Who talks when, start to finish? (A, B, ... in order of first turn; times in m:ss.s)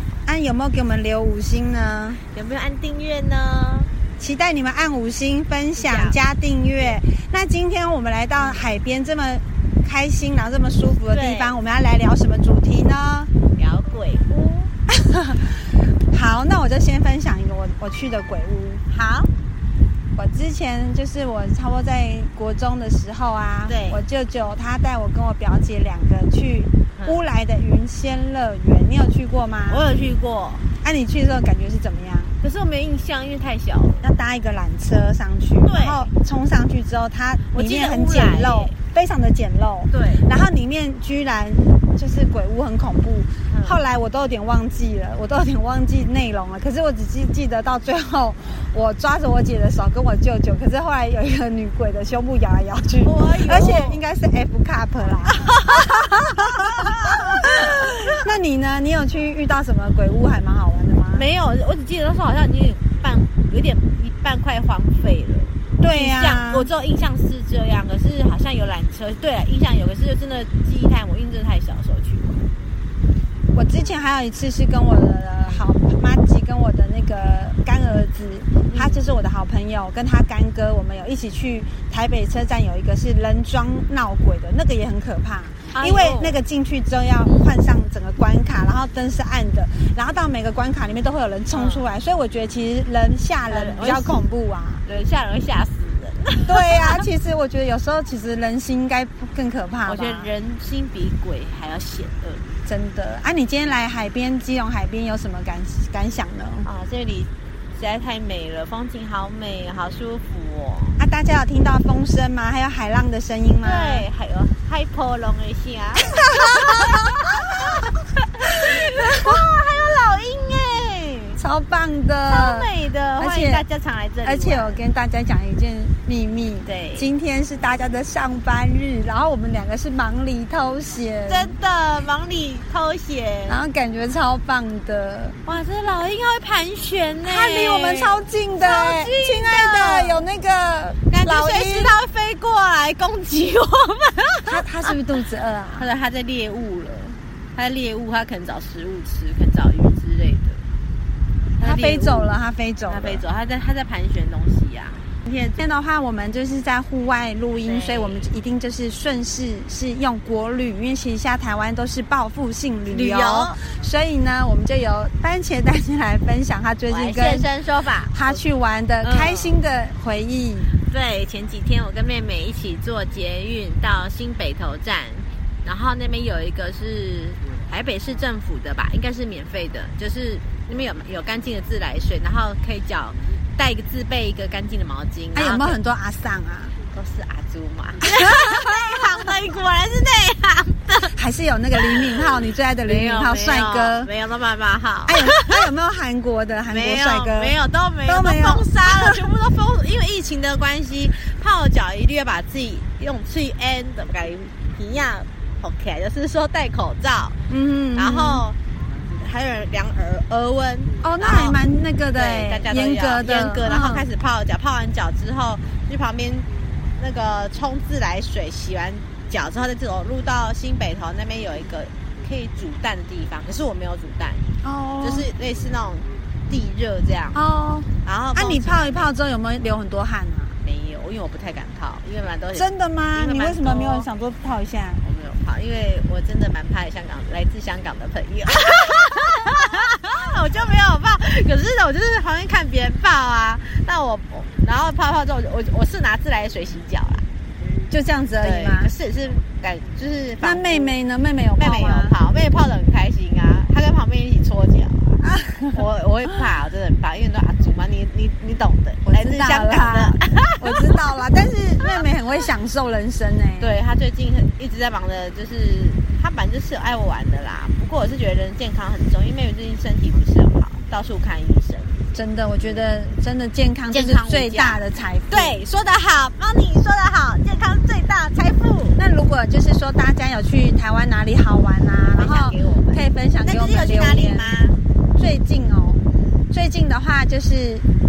0:00.3-0:02.2 A
0:02.3-0:03.9 B
0:04.2-0:13.3 A
0:05.8-0:06.2 B
0:08.4-0:08.7 B
0:11.1-0:11.6 B
0:13.6-0:14.7 B
0:14.9-0:18.8 A
0:18.9-0:19.3 B
0:20.2-0:29.8 A
0:23.7-0:24.0 B
0:29.7-0:30.7 B
0:30.8-0:32.4 A
0:32.4-0:34.1 B
0:34.0-1:01.3 A
0:35.6-0:36.1 B
0:37.5-0:38.8 B
0:39.9-0:40.2 B
0:43.5-0:43.8 B
0:53.0-0:54.0 B
0:55.5-0:58.2 B
1:01.1-1:12.4 B
1:05.8-1:06.7 A
1:13.5-1:34.8 A
1:18.7-1:19.1 B
1:25.7-1:26.4 B
1:31.5-1:31.8 B
1:33.5-1:34.2 B
1:34.8-1:37.0 B
1:36.5-1:40.3 A
1:39.9-1:42.4 B
1:42.7-1:46.7 A
1:46.6-1:51.0 B
1:51.0-1:54.1 A
1:53.6-2:01.4 B
1:56.1-1:57.2 A
2:01.4-2:03.6 A
2:02.3-2:04.8 B
2:04.2-2:11.6 A
2:06.6-2:07.1 B
2:11.3-2:13.6 B
2:13.5-2:15.4 A
2:15.5-2:20.3 B
2:17.2-2:22.0 A
2:21.1-2:24.9 B
2:24.5-2:25.9 A
2:25.8-2:30.6 B
2:31.6-2:35.6 B
2:31.6-2:33.2 A
2:35.6-2:47.5 A
2:37.6-2:38.3 B
2:42.9-2:43.6 B
2:46.9-2:48.4 B
2:48.1-2:50.7 A
2:49.0-2:49.6 B
2:50.9-3:05.8 B
3:05.3-3:06.8 A
3:06.9-3:11.2 B
3:08.3-3:08.9 A
3:11.2-3:14.1 A
3:11.8-3:12.3 B
3:12.8-3:15.6 B
3:15.1-3:17.6 A
3:16.7-3:27.4 B
3:18.1-3:19.2 A
3:27.5-3:28.4 A
3:28.0-3:28.6 B
3:29.2-3:31.6 B
3:31.0-3:34.1 A
3:32.1-3:44.5 B
3:44.6-3:45.3 A
3:45.0-3:47.4 B
3:47.3-3:50.6 A
3:48.0-3:49.1 B
3:50.6-3:54.1 B
3:52.5-3:55.0 A
3:55.0-4:07.2 B
4:07.9-4:08.9 A
4:08.4-4:11.0 B
4:10.4-4:12.2 A
4:11.6-4:21.0 B
4:15.2-4:15.8 A
4:19.1-4:23.7 A
4:23.6-4:32.0 B
4:32.1-4:35.6 A
4:32.6-4:32.9 B
4:33.9-4:39.0 B
4:39.0-4:44.6 A
4:42.2-4:44.8 B
4:45.2-4:47.9 A